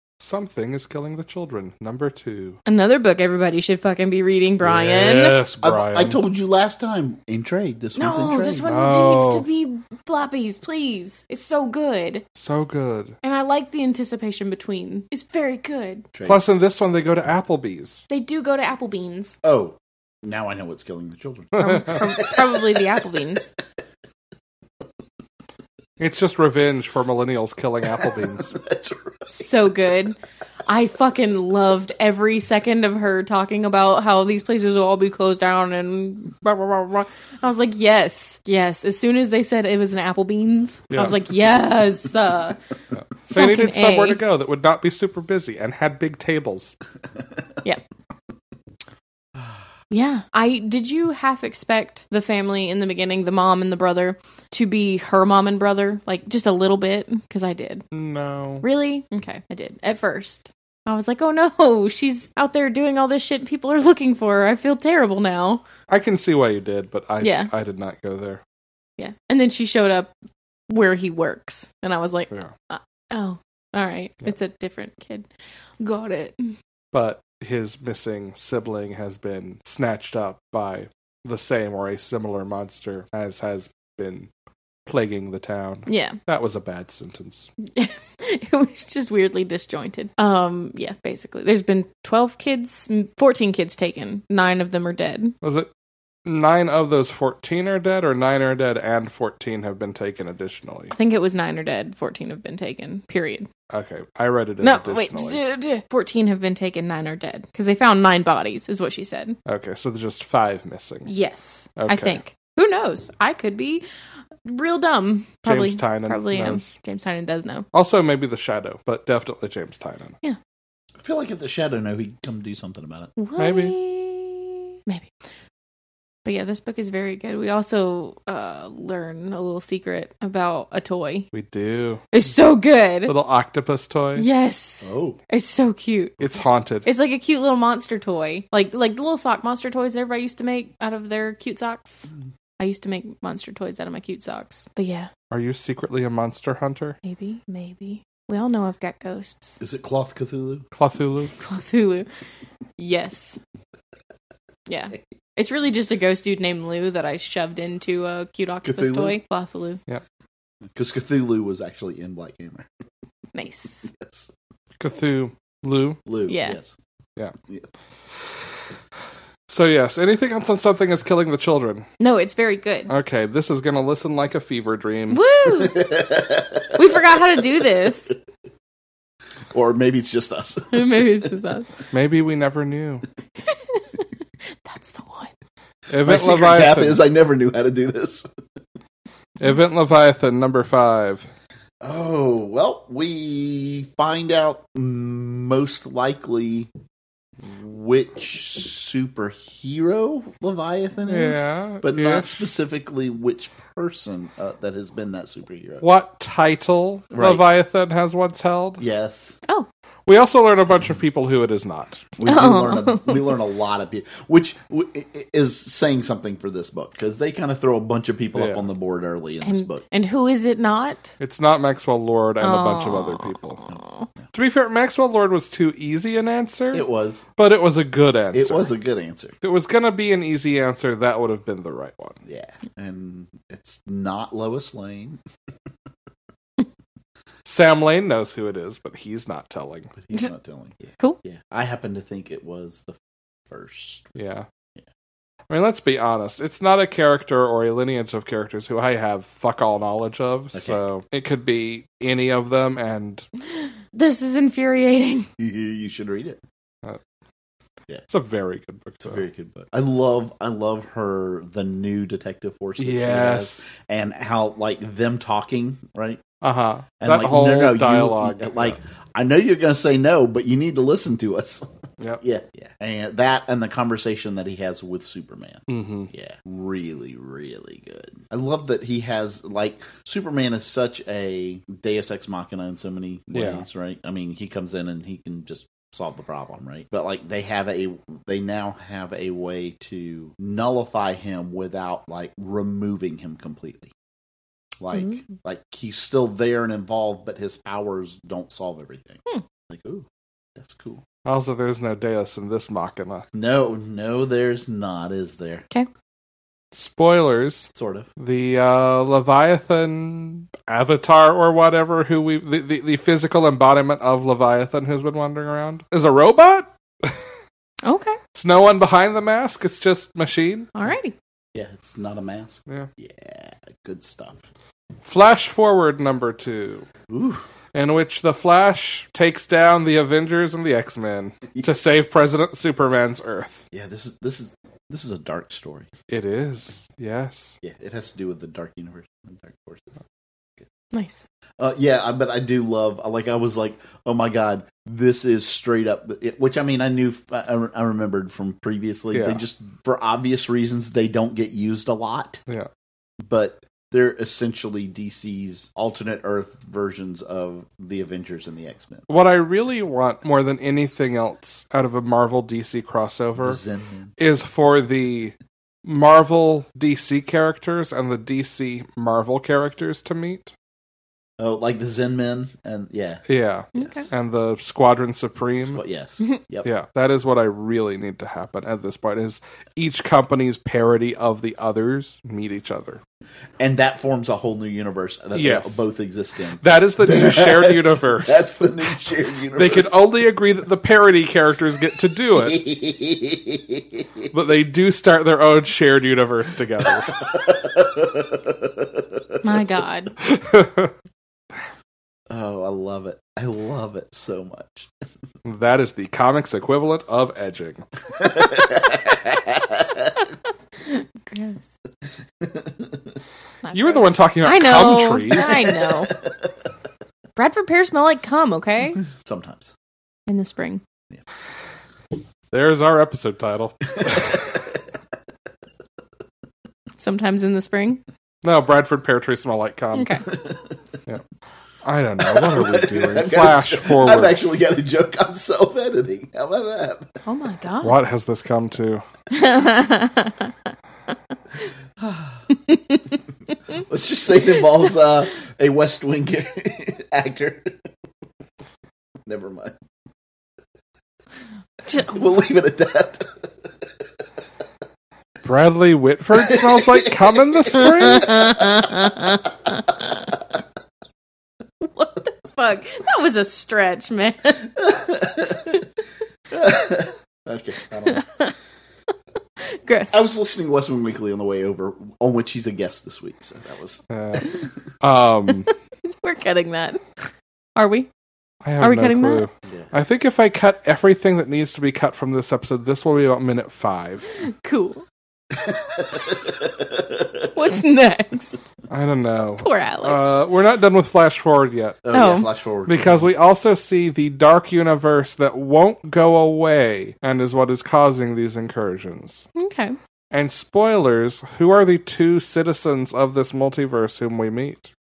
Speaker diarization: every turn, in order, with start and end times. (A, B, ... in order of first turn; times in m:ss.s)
0:00.2-0:02.6 A
0:02.6-0:05.4 B
0:04.6-0:06.2 A
0:05.6-0:08.6 C
0:08.0-0:12.2 B
0:08.7-0:09.5 A
0:12.4-0:13.2 A
0:13.2-0:16.0 B
0:16.1-0:16.4 C
0:16.2-0:18.0 A
0:18.1-0:19.4 B
0:19.4-0:22.6 C
0:21.6-0:21.9 A
0:21.6-0:23.5 B
0:26.0-0:28.6 A
0:28.5-0:29.2 C
0:29.3-0:42.6 B
0:42.9-0:46.7 A
0:43.3-0:44.2 B
0:49.9-0:57.8 B
0:57.9-0:58.6 A
0:58.6-1:05.6 B
1:05.9-1:08.4 A
1:07.2-1:07.5 B
1:09.0-1:10.1 B
1:10.7-1:15.3 B
1:15.8-1:16.6 B
1:16.9-1:24.3 A
1:24.9-1:27.5 A
1:25.9-1:26.2 B
1:27.6-1:35.3 B
1:35.4-1:35.7 A
1:36.2-1:40.9 A
1:40.9-1:43.5 B
1:43.7-1:45.4 A
1:44.6-1:49.4 B
1:49.5-1:51.1 A
1:51.1-1:53.8 B
1:51.8-1:52.2 A
1:54.4-1:57.6 B
1:55.4-1:56.7 A
1:57.7-2:00.1 A
2:01.0-2:03.1 C
2:03.2-2:05.1 B
2:03.4-2:03.7 A
2:06.2-2:11.3 B
2:11.3-2:12.0 A
2:12.1-2:13.1 B
2:13.1-2:14.2 A
2:14.2-2:16.2 B
2:14.8-2:15.2 C
2:16.2-2:16.8 A
2:16.8-2:22.1 B
2:22.6-2:25.1 B
2:25.3-2:27.0 A
2:27.0-2:29.6 B
2:29.6-2:30.6 C
2:30.8-2:31.3 A
2:31.4-2:32.1 B
2:32.8-2:33.4 B
2:34.7-2:39.8 B
2:38.6-2:39.2 C
2:40.7-2:42.7 C
2:43.3-2:43.9 B
2:43.9-2:44.3 C
2:44.8-2:46.0 A
2:46.0-2:46.7 C
2:46.3-2:46.6 B
2:49.5-2:51.8 A
2:52.0-2:52.9 B
2:52.9-2:55.2 A
2:55.1-2:55.9 B
2:55.5-2:57.2 C
2:56.7-2:58.1 B
2:59.5-3:01.3 C
3:00.7-3:01.7 B
3:01.9-3:03.0 A
3:03.5-3:03.8 B
3:04.6-3:05.3 B
3:05.9-3:07.0 A
3:06.0-3:08.2 C
3:09.4-3:11.3 A
3:11.8-3:16.7 C
3:17.4-3:25.8 C
3:21.1-3:22.5 A
3:25.8-3:28.8 A
3:27.1-3:27.4 C
3:28.8-3:29.4 C
3:30.0-3:32.1 A
3:32.2-3:39.8 C
3:32.2-3:33.3 B
3:38.3-3:38.7 A
3:39.4-3:41.1 B
3:41.2-3:43.6 A
3:42.4-3:44.1 B
3:44.3-3:46.8 A
3:46.7-3:47.2 C
3:47.4-3:48.7 A
3:48.3-3:49.3 C
3:49.4-3:52.2 A
3:52.2-3:55.2 C
3:57.4-3:59.9 A
4:00.0-4:03.0 C
4:03.5-4:04.1 C
4:04.2-4:04.4 A
4:05.5-4:13.3 A
4:10.5-4:10.8 C
4:13.9-4:15.3 B
4:15.4-4:16.4 C
4:18.1-4:19.2 A
4:19.0-4:26.2 C
4:22.8-4:23.7 A
4:26.4-4:28.8 A
4:27.0-4:31.7 C
4:32.2-4:53.9 C
4:35.7-4:36.1 A
4:43.3-4:43.6 A
4:54.8-5:01.0 C
5:01.2-5:03.2 A
5:03.3-5:05.6 C
5:06.7-5:17.2 A
5:07.7-5:08.1 C
5:17.8-5:18.2 B
5:18.3-5:20.7 A
5:20.7-5:21.1 B
5:21.5-5:24.4 C
5:25.0-5:26.9 A
5:27.1-5:27.4 C
5:27.7-5:33.6 A
5:33.7-5:35.9 C
5:36.1-5:37.6 A
5:37.6-5:40.0 C
5:40.9-5:41.2 B
5:41.6-5:52.4 C
5:49.1-5:49.4 A
5:53.2-5:59.0 C
5:59.1-6:03.6 A
6:03.4-6:04.1 C
6:04.2-6:05.3 A
6:05.8-6:10.5 A
6:11.4-6:13.2 C
6:13.3-6:15.8 A
6:13.7-6:14.1 B
6:13.7-6:14.1 C
6:15.6-6:16.7 C
6:16.6-6:23.0 A
6:23.6-6:29.9 C
6:25.3-6:25.8 A
6:26.6-6:28.7 A
6:29.6-6:32.6 A
6:32.3-6:34.3 C
6:34.3-6:37.1 A
6:37.0-6:39.4 C
6:39.4-6:40.1 B
6:40.2-6:40.9 A
6:42.3-6:44.9 C
6:45.4-6:47.8 A
6:48.2-6:50.2 C
6:50.8-6:51.7 B
6:52.4-6:53.0 C
6:53.5-6:56.1 B
6:53.7-6:55.7 A
6:55.4-6:56.5 C
6:57.4-6:59.0 B
6:59.0-6:59.7 C
7:00.3-7:00.8 B
7:02.5-7:04.5 A
7:04.0-7:04.8 C
7:07.0-7:08.0 B
7:08.4-7:10.2 A
7:09.9-7:10.2 B
7:10.3-7:10.7 C
7:11.8-7:14.4 A
7:12.2-7:17.1 C
7:17.2-7:17.9 B
7:17.8-7:19.0 A
7:19.3-7:20.5 B
7:22.0-7:22.5 C
7:22.7-7:23.0 B
7:23.7-7:27.8 C
7:29.2-7:29.7 C
7:31.9-7:32.1 B
7:31.9-7:33.4 C
7:35.4-7:38.4 A
7:36.3-7:39.3 C
7:38.0-7:40.3 B
7:41.8-7:44.7 B
7:44.7-7:45.8 C
7:46.5-7:48.2 C
7:48.0-7:48.5 B
7:49.6-7:50.2 B
7:50.1-7:54.0 C
7:54.1-7:55.7 A
7:56.0-7:58.1 B
7:58.6-8:04.3 A
7:58.8-7:59.4 B
7:59.6-7:59.9 C
8:04.4-8:05.0 B
8:05.5-8:07.5 C
8:07.5-8:08.6 B
8:08.9-8:12.0 A
8:09.6-8:10.4 B
8:12.0-8:13.3 C
8:12.1-8:12.5 B
8:12.8-8:19.4 A
8:19.6-8:20.0 B
8:20.3-8:24.9 A